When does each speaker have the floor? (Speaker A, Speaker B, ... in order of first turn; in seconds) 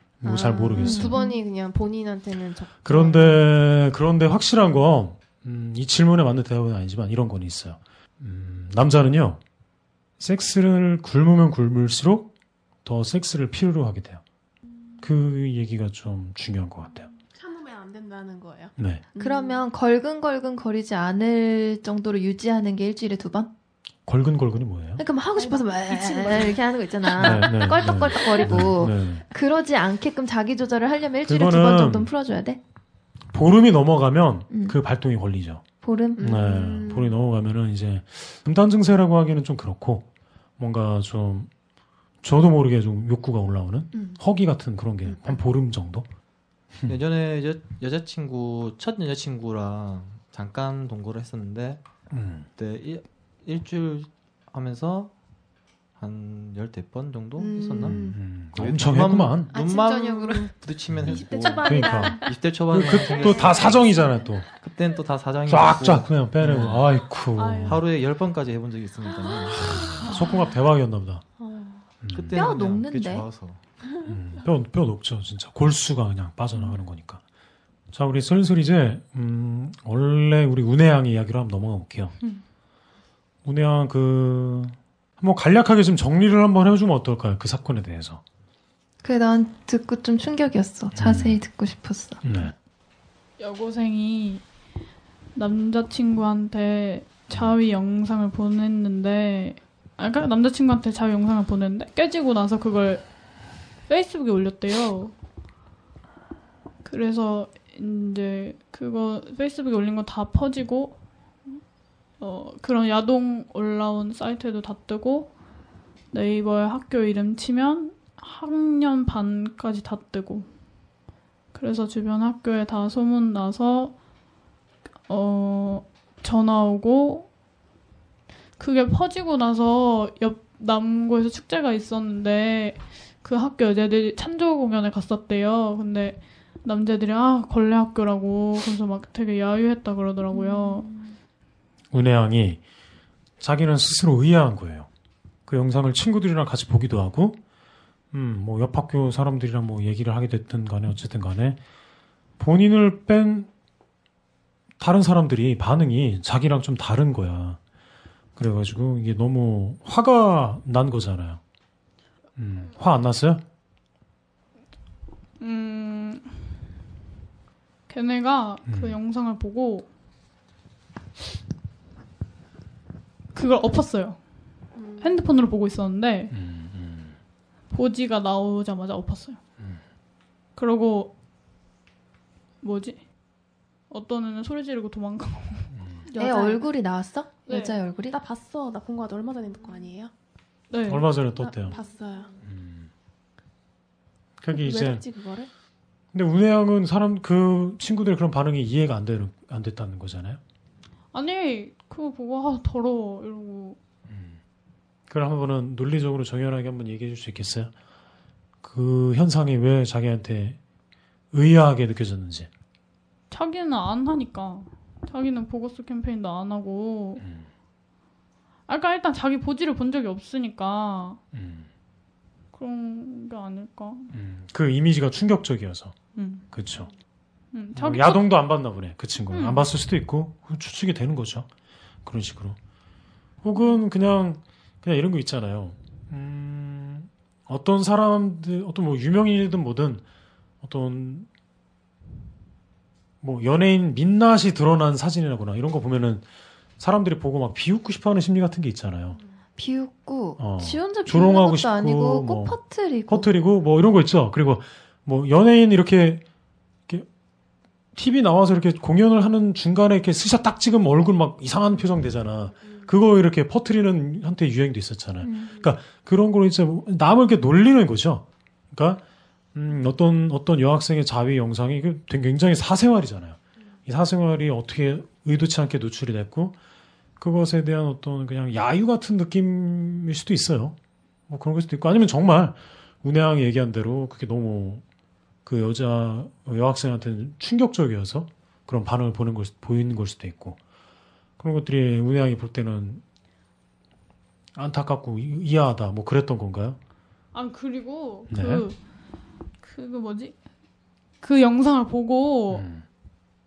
Speaker A: 0.2-1.2, 2.8-9.4, 10.2-12.3, 12.8-14.2, 15.0-17.1, 18.8-19.0, 24.1-25.0, 27.2-29.2, 31.2-32.1, 33.3-35.6, 36.2-40.0, 40.6-41.5, 42.2-46.1, 52.1-52.5, 57.8-59.5, 60.9-62.2, 62.7-64.5, 65.5-67.8, 69.5-71.2, 72.0-72.4, 74.0-77.2, 77.9-82.1, 83.4-88.2, 91.0-91.4, 92.2-92.5, 141.9-142.6, 143.4-144.9, 145.5-147.4, 148.1-151.6, 152.4-153.5, 154.8-157.6, 158.4-161.4, 162.4-163.4, 168.7-169.0, 176.3-177.2, 185.7-186.0, 190.9-191.8, 192.4-192.9, 194.4-195.0, 196.1-200.4, 204.1-204.4, 205.1-207.7, 208.6-210.6, 211.3-212.5, 217.2-217.5, 221.3-221.7, 224.1-225.9, 226.5-226.9, 227.7-231.5, 232.0-232.6, 233.4-240.0, 240.6-241.3, 243.2-246.2, 246.8-249.2, 250.4-256.2, 257.9-269.0, 269.5-276.6, 277.2-280.7, 281.3-284.8, 285.4-290.6, 291.4-293.0, 294.5-296.8, 298.3-298.7, 302.5-302.8
Speaker B: 0.2-3.5, 36.1-37.1, 43.9-44.2, 45.0-45.4, 57.4-58.2, 59.5-60.5
Speaker C: 0.7-1.4, 19.2-23.5, 25.0-32.6, 34.5-34.8, 35.8-36.5, 72.3-73.2, 89.0-92.2, 140.3-141.1, 186.2-188.2, 249.6-253.3, 265.2-265.5
Speaker D: 17.3-19.6, 25.3-26.6, 27.1-28.6, 61.0-64.0, 67.3-67.8, 69.0-70.5, 71.4-71.8, 174.8-175.2, 186.1-186.6, 188.1-190.1, 191.3-192.3, 194.5-195.5
Speaker E: 46.9-51.8, 52.5-55.1, 56.0-63.8, 64.6-66.8, 67.6-70.0, 72.1-73.6
Speaker F: 93.4-94.4, 95.3-103.0, 103.9-105.1, 106.8-111.0, 112.2-115.3, 116.1-120.5, 121.5-123.9, 125.1-127.3, 128.6-140.9, 165.4-166.4, 167.9-169.8, 173.3-174.2, 175.0-176.3, 177.7-179.4, 180.6-181.1, 182.6-183.0, 183.9-185.7, 187.5-187.7, 190.7-191.1, 201.1-203.8, 213.3-217.2, 218.7-221.2, 222.5-224.1, 226.2-226.4, 227.5-228.4, 229.3-229.7, 297.3-298.8, 299.6-300.3, 301.2-302.7